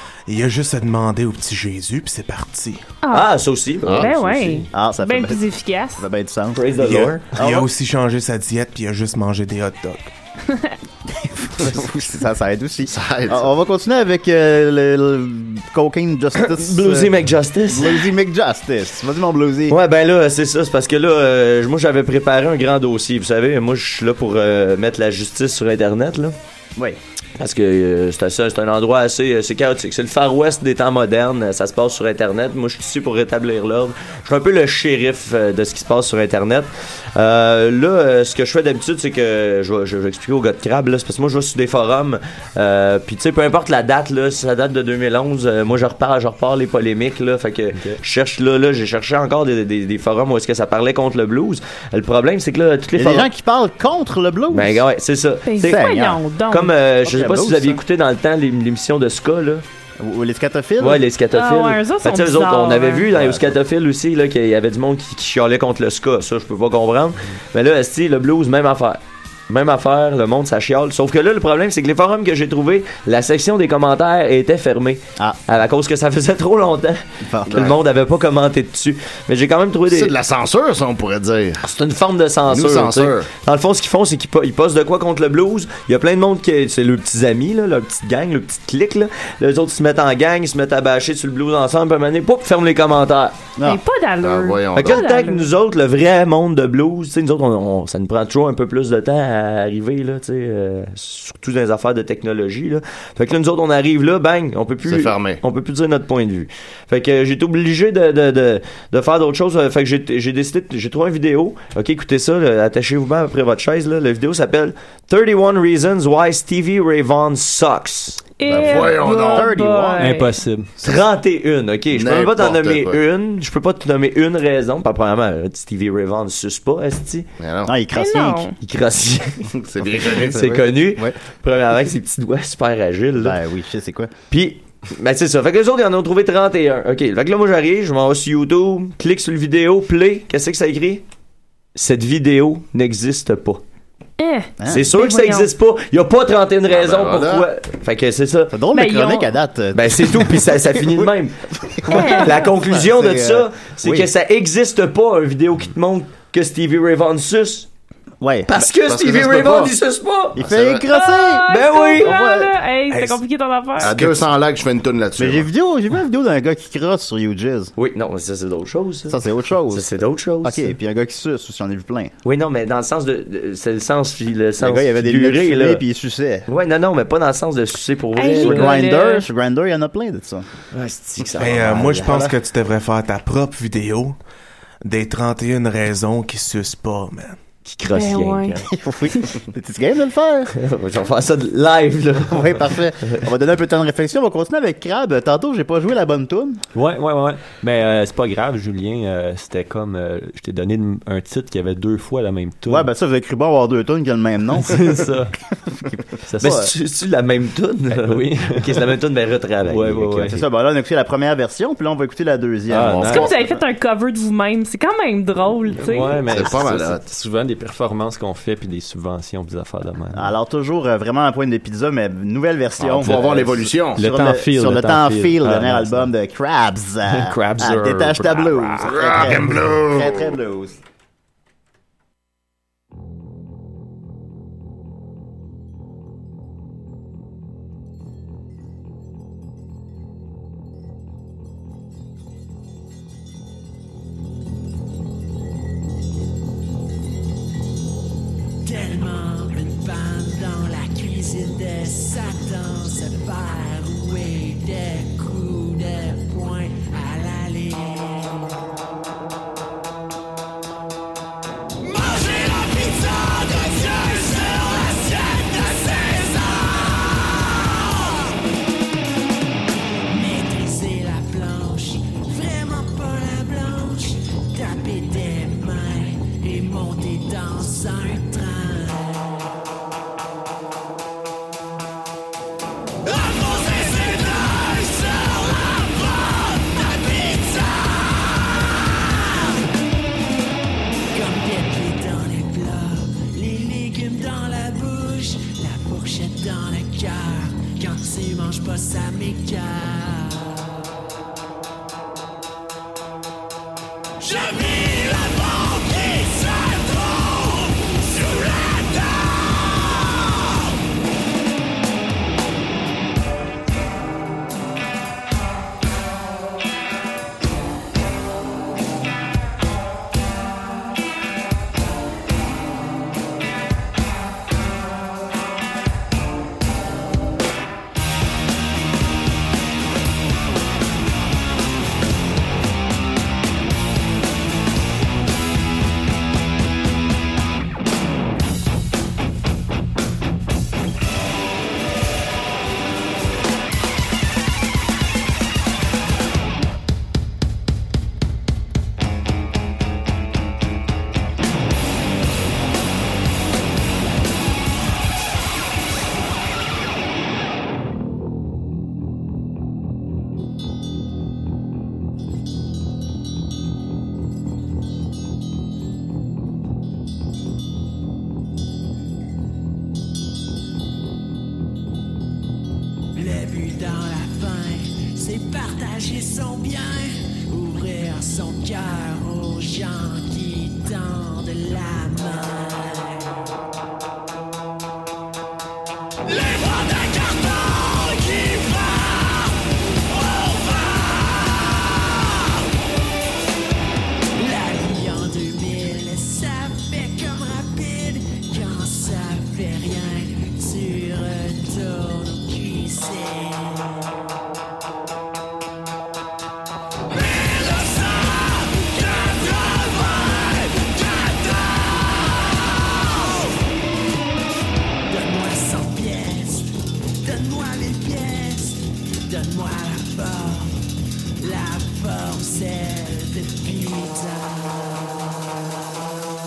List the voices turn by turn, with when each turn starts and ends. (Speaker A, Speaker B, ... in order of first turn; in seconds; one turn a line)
Speaker A: 0.3-2.9
Speaker B: 3.0-3.3
Speaker C: 3.1-4.7
Speaker D: 3.9-4.1
Speaker B: 3.9-6.0
Speaker E: 4.7-5.4
Speaker E: 6.0-6.8
Speaker C: 6.5-7.2
Speaker A: 6.8-10.1
Speaker E: 7.3-7.7
Speaker E: 11.6-17.1
Speaker D: 12.9-13.5
Speaker C: 16.4-18.1
Speaker E: 17.7-19.8
Speaker C: 19.7-26.4
Speaker C: 27.4-53.3
Speaker F: 47.7-48.0
Speaker E: 53.0-54.8
Speaker C: 54.5-56.0
Speaker B: 55.5-56.7
Speaker E: 55.6-56.2
Speaker C: 56.5-59.6
Speaker E: 57.0-57.8
Speaker E: 60.0-61.0
Speaker C: 60.8-80.1
Speaker B: 61.3-63.1
Speaker E: 63.2-63.4
Speaker E: 77.3-77.7
Speaker D: 79.9-81.6
Speaker C: 81.6-93.4
Speaker D: 82.5-83.3
Speaker B: 93.6-95.5
Speaker D: 94.2-95.0
Speaker C: 94.8-118.3
Speaker D: 104.8-105.4
Speaker B: 118.4-120.3
Speaker D: 118.5-119.5
Speaker E: 119.0-120.1
Speaker F: 120.0-120.7
Speaker C: 120.8-127.3
Speaker D: 121.9-123.0
Speaker D: 127.4-127.7
Speaker E: 127.7-128.4
Speaker B: 127.9-128.6
Speaker C: 128.6-129.5
Speaker D: 129.6-130.4
Speaker E: 130.0-131.2
Speaker C: 130.2-133.4
Speaker E: 133.2-134.1
Speaker C: 134.3-141.0
Speaker C: 141.8-143.6
Speaker B: 144.2-145.5
Speaker E: 144.6-144.9
Speaker C: 144.7-148.6
Speaker D: 146.7-147.5
Speaker E: 148.5-151.1
Speaker B: 148.7-149.3
Speaker C: 149.7-157.7
Speaker E: 151.7-154.1
Speaker B: 151.9-152.3
Speaker E: 158.2-158.5
Speaker C: 158.5-160.4
Speaker D: 158.8-159.7
Speaker E: 160.4-162.5
Speaker D: 160.4-160.9
Speaker B: 160.9-164.0
Speaker C: 161.5-162.2
Speaker A: 162.9-163.2
Speaker D: 163.8-165.5
Speaker A: 163.8-164.3
Speaker E: 165.2-167.7
Speaker C: 167.8-170.8
Speaker E: 169.1-169.9
Speaker E: 170.4-172.1
Speaker C: 172.2-175.8
Speaker E: 174.6-176.5
Speaker C: 176.5-178.8
Speaker B: 178.2-179.3
Speaker E: 178.4-180.5
Speaker C: 180.7-182.1
Speaker A: 181.4-184.2
Speaker E: 181.4-182.3
Speaker A: 184.8-187.4
Speaker C: 187.7-188.7
Speaker B: 187.9-188.6
Speaker E: 188.7-190.5
Speaker C: 190.6-193.1
Speaker E: 192.3-196.6
Speaker F: 196.7-202.9
Speaker E: 202.7-205.1
Speaker F: 204.6-205.3
Speaker E: 205.9-206.7
Speaker F: 206.3-206.6
Speaker C: 206.4-210.3
Speaker F: 207.9-208.8
Speaker F: 209.7-210.4
Speaker E: 210.3-213.3
Speaker F: 212.7-213.4
Speaker D: 212.8-213.3
Speaker B: 213.0-216.3
Speaker F: 215.8-220.3
Speaker D: 216.3-217.0
Speaker E: 220.1-230.8
Speaker D: 222.8-224.0
Speaker F: 224.0-226.1
Speaker F: 227.1-229.0
Speaker D: 228.8-230.3
Speaker G: 248.7-258.5
Speaker G: 261.8-268.3
Speaker G: 270.1-279.4
Speaker G: 283.1-289.6
Speaker G: 291.1-300.7
Speaker G: 304.2-310.5
Speaker G: 373.1-383.3
Speaker G: 386.3-392.7
Speaker G: 394.4-404.0
Speaker G: 407.1-413.6
Speaker G: 415.1-420.8
Speaker G: 421.4-425.4